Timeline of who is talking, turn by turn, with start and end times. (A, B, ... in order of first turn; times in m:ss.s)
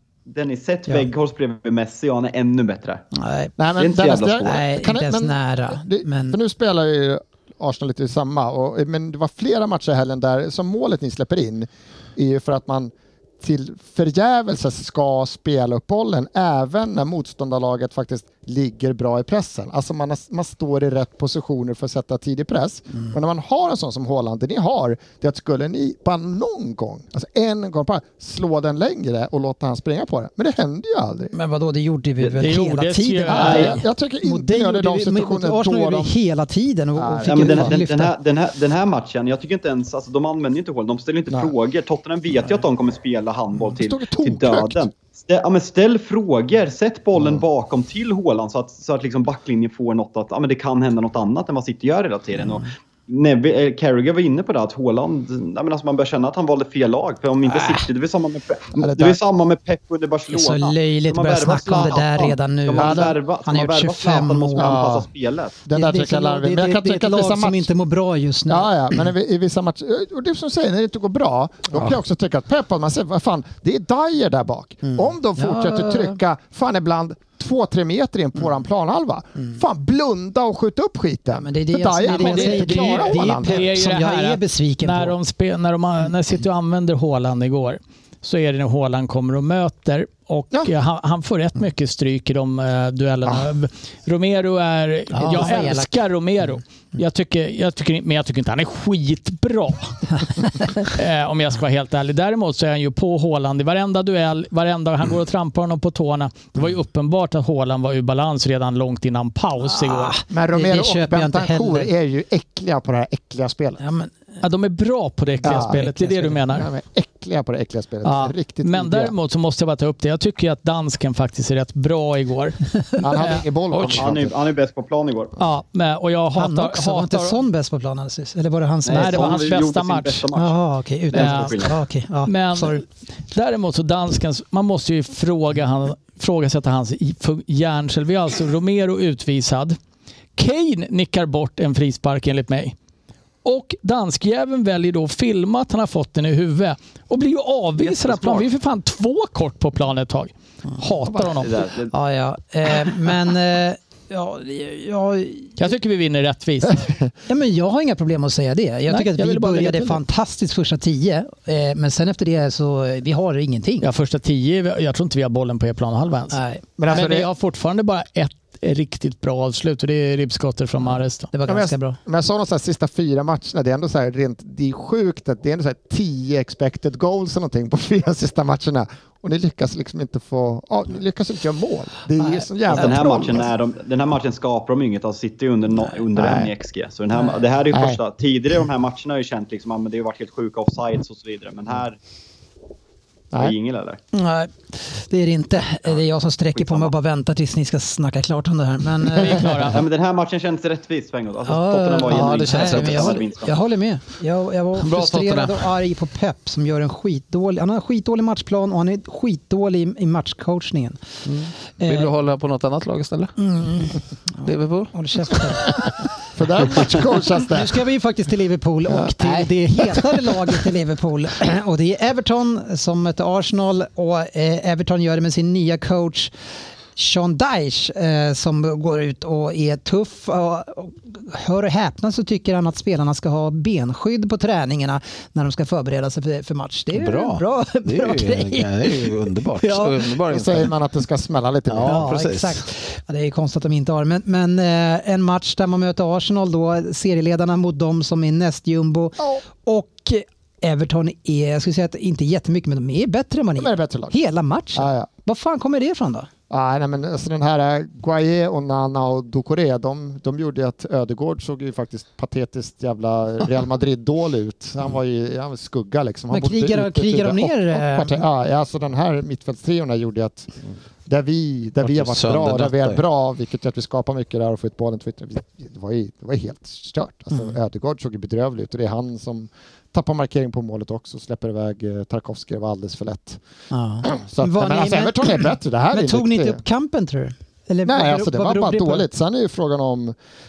0:00.3-0:03.0 A
0:03.1-0:03.5 B
0:03.6-0:31.3 C
0:03.8-0:04.7 A
0:04.4-0:06.4 B
0:31.3-0:38.1 B
0:32.4-0:33.8 D
0:33.3-0:36.1 C
0:37.0-0:37.8 C
0:37.3-1:05.6 A
0:43.8-0:44.8 C
0:47.2-0:47.4 C
0:57.4-0:57.9 B
0:58.8-0:59.2 C
1:00.3-1:04.8 B
1:02.8-1:03.2 C
1:04.6-1:05.1 C
1:05.6-1:07.7 C
1:05.7-1:08.7 B
1:08.5-1:23.6 C
1:14.8-1:16.2 B
1:21.4-1:25.2 B
1:22.0-1:50.2 D
1:35.1-1:35.9 B
1:40.6-1:40.8 B
1:49.7-1:51.9 B
1:50.3-1:53.8 C
1:53.8-1:54.2 B
1:54.4-1:56.7 D
1:55.4-1:59.2 C
1:55.6-1:56.0 B
1:58.0-2:04.1 D
2:03.0-2:04.3 C
2:03.8-2:05.4 A
2:05.4-2:07.4 D
2:06.4-2:09.5 B
2:08.9-2:10.6 A
2:08.9-2:10.3 D
2:10.4-2:12.8 B
2:11.1-2:11.8 A
2:11.1-2:11.7 D
2:12.2-2:19.8 D
2:20.4-2:22.8 D
2:23.4-2:31.6 D
2:27.8-2:28.5 A
2:31.3-2:31.9 A
2:31.9-2:35.5 B
2:35.6-2:36.9 D
2:37.3-2:43.9 B
2:38.9-2:40.0 D
2:43.8-2:51.3 D
2:46.3-2:46.6 B
2:46.8-2:47.3 C
2:51.3-2:52.0 B
2:51.5-3:03.5 C
3:02.2-3:02.9 B
3:02.7-3:12.0 A
3:06.2-3:06.5 C
3:07.7-3:08.0 C
3:13.3-3:14.0 A
3:14.1-3:19.7 B
3:16.6-3:16.9 A
3:19.1-3:19.8 D
3:19.7-3:23.6 A
3:21.5-3:31.0 B
3:22.1-3:23.2 E
3:24.8-3:25.6 E
3:31.3-3:33.3 E
3:31.8-3:32.1 B
3:33.4-3:35.8 B
3:34.4-3:34.9 E
3:36.3-3:37.8 C
3:37.5-3:46.3 B
3:39.2-3:39.5 E
3:47.0-4:00.0 B
3:56.9-4:00.7 E
4:00.3-4:02.1 C
4:01.7-4:02.6 E
4:01.8-4:16.3 B
4:13.6-4:14.2 C
4:14.8-4:15.1 C
4:16.5-4:30.5 C
4:26.3-4:28.2 B
4:31.1-4:43.4 C
4:31.8-4:33.0 E
4:43.7-4:49.1 B
4:44.0-4:46.6 C
4:47.8-4:50.2 C